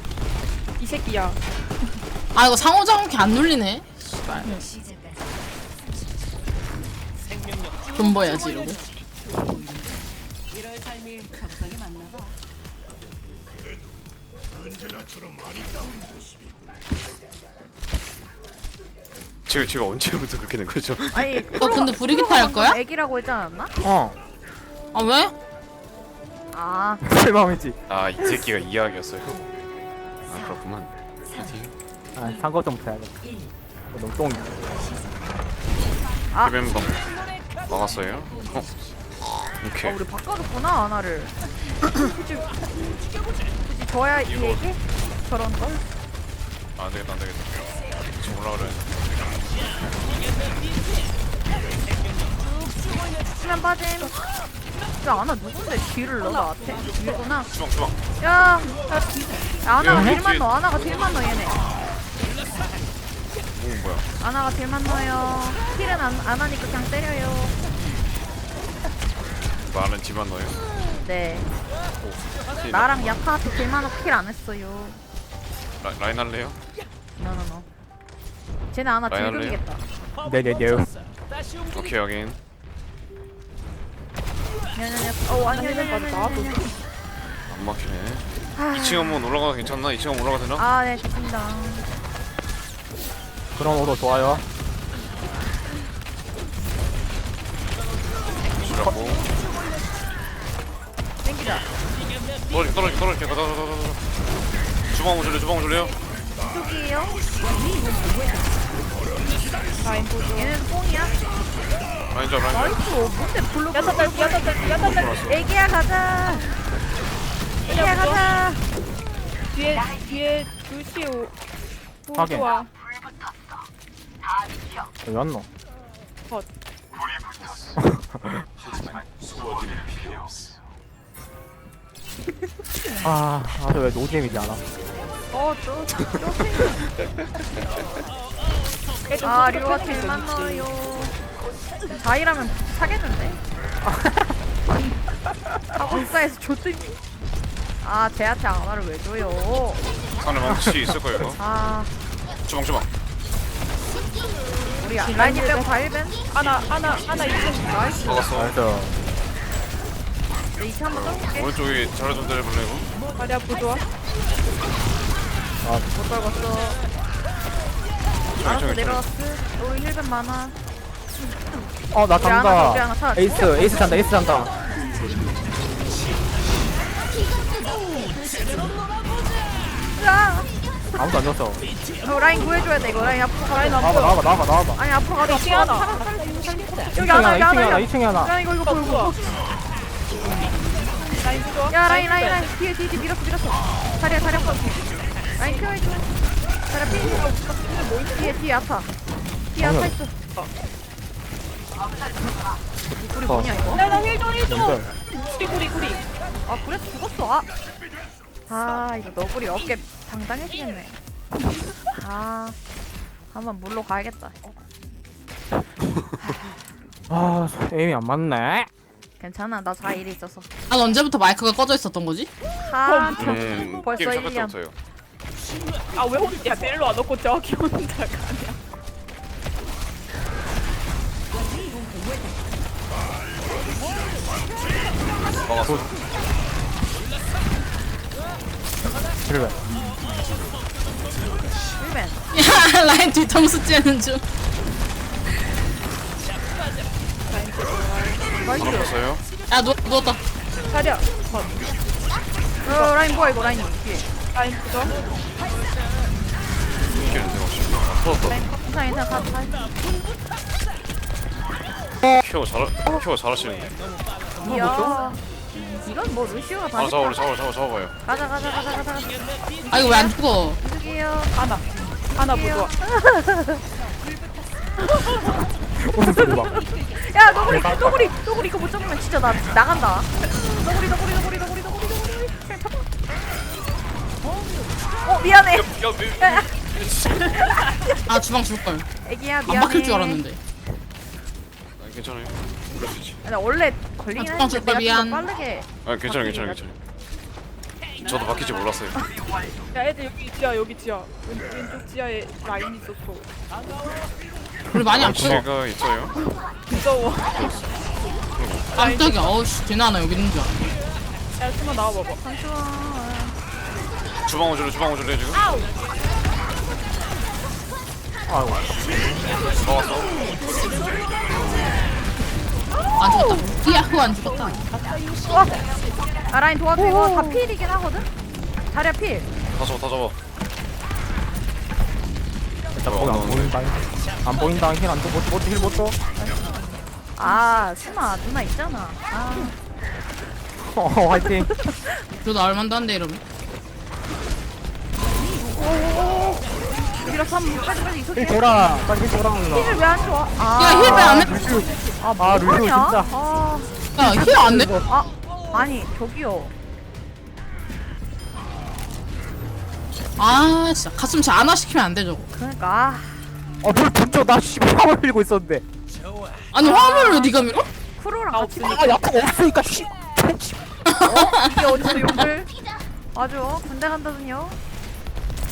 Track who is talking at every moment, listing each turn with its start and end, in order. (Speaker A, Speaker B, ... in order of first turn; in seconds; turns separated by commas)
Speaker A: 0.8-1.4, Speaker B: 2.4-4.6, Speaker B: 7.9-8.8, Speaker C: 19.5-21.6, Speaker D: 21.1-23.7, Speaker B: 21.6-22.8, Speaker E: 23.8-24.2, Speaker B: 24.9-25.3, Speaker D: 26.5-27.0, Speaker E: 27.0-27.8, Speaker C: 27.9-29.5, Speaker C: 30.3-31.7, Speaker E: 32.1-33.1, Speaker E: 33.9-34.6, Speaker D: 36.3-36.6, Speaker C: 36.4-37.1, Speaker C: 37.7-38.7, Speaker C: 39.6-40.0, Speaker D: 39.8-41.4, Speaker D: 41.9-42.5, Speaker D: 43.6-45.8, Speaker C: 44.2-44.7, Speaker C: 46.8-47.6, Speaker C: 48.1-49.0, Speaker D: 53.3-54.2, Speaker D: 55.0-57.5, Speaker C: 57.5-58.0, Speaker D: 58.2-61.6, Speaker C: 59.8-60.5, Speaker E: 59.9-60.2, Speaker C: 63.6-64.1, Speaker D: 64.2-67.6, Speaker C: 69.7-70.6, Speaker D: 71.0-71.5, Speaker C: 72.0-73.2, Speaker D: 72.7-75.0, Speaker C: 75.8-76.6, Speaker D: 77.2-77.7, Speaker D: 78.7-79.8, Speaker C: 79.1-79.6, Speaker E: 80.2-81.0, Speaker C: 81.7-82.4, Speaker D: 84.7-86.7, Speaker A: 85.3-86.7, Speaker C: 87.5-90.7, Speaker D: 88.5-89.2, Speaker D: 90.6-91.9, Speaker E: 93.5-94.5, Speaker C: 98.6-99.2, Speaker D: 101.2-101.7, Speaker C: 102.5-104.0, Speaker C: 104.9-105.9, Speaker D: 106.5-107.2, Speaker A: 109.8-110.6, Speaker D: 110.3-111.2, Speaker C: 112.1-112.8, Speaker D: 112.5-114.7, Speaker A: 113.7-115.3, Speaker C: 114.5-115.4, Speaker D: 115.2-116.6, Speaker A: 117.7-118.3, Speaker D: 117.7-118.6, Speaker A: 119.5-121.3, Speaker A: 122.1-122.7, Speaker E: 122.2-122.5, Speaker E: 125.0-125.5, Speaker E: 127.8-128.4, Speaker E: 133.0-134.6, Speaker D: 135.3-136.8, Speaker A: 139.1-140.6, Speaker D: 139.2-141.2, Speaker D: 141.8-143.4, Speaker E: 143.8-144.3, Speaker D: 145.7-146.9, Speaker D: 147.8-149.8, Speaker C: 150.2-151.4, Speaker E: 150.5-150.9, Speaker D: 151.4-151.9, Speaker C: 152.5-152.9, Speaker D: 154.8-156.2, Speaker A: 155.1-155.7, Speaker A: 156.3-158.3, Speaker C: 158.0-158.6, Speaker E: 158.3-158.9, Speaker D: 160.6-161.5, Speaker C: 160.9-162.9, Speaker A: 163.2-163.9, Speaker D: 165.9-166.8, Speaker C: 168.3-169.0, Speaker D: 168.4-170.6, Speaker E: 171.9-174.5, Speaker D: 172.2-174.2, Speaker D: 179.9-180.5, Speaker E: 180.9-181.6, Speaker D: 182.0-183.9, Speaker A: 183.5-184.2, Speaker E: 183.8-184.8, Speaker D: 184.8-189.2, Speaker A: 185.2-185.9, Speaker E: 186.9-188.3, Speaker A: 188.6-189.2, Speaker A: 191.0-192.5, Speaker D: 191.7-194.8, Speaker A: 194.0-194.8, Speaker D: 195.4-196.1, Speaker D: 196.7-197.2, Speaker A: 197.0-198.4, Speaker D: 198.1-198.9, Speaker D: 199.5-200.2, Speaker E: 199.6-199.9, Speaker D: 202.9-203.9, Speaker E: 203.3-203.5, Speaker A: 203.7-206.1, Speaker E: 204.5-204.9, Speaker D: 206.5-207.5, Speaker D: 208.5-211.0, Speaker D: 211.9-212.6, Speaker D: 213.3-214.4, Speaker E: 217.1-218.7, Speaker D: 219.2-220.5, Speaker B: 220.7-222.3, Speaker D: 222.7-224.6, Speaker A: 222.8-223.6, Speaker C: 223.2-224.8, Speaker A: 225.9-228.6, Speaker C: 235.4-235.9, Speaker E: 239.2-239.6, Speaker D: 241.8-242.2, Speaker B: 242.3-244.2, Speaker A: 247.3-248.4, Speaker D: 248.4-248.9, Speaker C: 248.4-249.2, Speaker B: 249.5-250.2, Speaker A: 250.7-251.6, Speaker D: 252.6-254.1, Speaker A: 254.3-254.9, Speaker C: 256.9-258.4, Speaker D: 258.3-259.7, Speaker C: 262.1-263.8, Speaker E: 264.4-265.0, Speaker D: 264.4-267.3, Speaker C: 266.8-267.9, Speaker D: 268.0-271.4, Speaker B: 269.7-270.6, Speaker A: 271.3-272.7, Speaker D: 272.1-273.6, Speaker E: 275.8-276.7, Speaker D: 276.4-282.8, Speaker E: 277.5-278.1, Speaker D: 285.0-285.7, Speaker C: 285.5-287.5, Speaker D: 286.2-286.5, Speaker D: 287.2-288.0, Speaker B: 288.1-288.9, Speaker D: 289.0-290.2, Speaker B: 289.5-290.4, Speaker C: 291.8-293.2, Speaker D: 293.2-296.6, Speaker B: 294.2-295.3, Speaker C: 295.9-296.8, Speaker C: 298.0-299.0, Speaker A: 299.7-303.3, Speaker B: 304.7-305.5, Speaker C: 304.9-306.2, Speaker A: 306.7-307.6, Speaker C: 307.3-307.7, Speaker C: 308.4-308.8, Speaker B: 308.8-310.6, Speaker A: 308.8-309.3, Speaker A: 311.4-312.2, Speaker D: 312.2-313.4, Speaker C: 314.2-315.5, Speaker E: 318.3-318.9, Speaker C: 319.5-320.2, Speaker B: 323.0-324.7, Speaker D: 325.3-325.6, Speaker D: 326.3-328.1, Speaker E: 326.8-327.5, Speaker D: 328.7-329.3, Speaker C: 329.6-330.2, Speaker E: 332.7-336.0, Speaker C: 332.8-333.6, Speaker D: 337.2-339.6, Speaker E: 340.7-341.5, Speaker B: 342.2-343.2, Speaker E: 345.6-346.4, Speaker D: 347.0-348.9, Speaker E: 348.2-349.8, Speaker D: 349.5-351.4, Speaker B: 350.6-351.4, Speaker E: 350.8-353.1, Speaker D: 352.0-353.7, Speaker B: 353.9-354.8, Speaker E: 354.0-354.9, Speaker D: 354.9-356.5, Speaker B: 360.2-362.3, Speaker D: 362.3-363.4, Speaker E: 363.6-365.6, Speaker B: 366.5-367.7, Speaker D: 366.6-367.4, Speaker D: 368.0-368.9, Speaker A: 368.3-369.0, Speaker E: 368.7-370.7, Speaker B: 370.9-371.9, Speaker D: 371.1-372.5, Speaker D: 373.1-374.6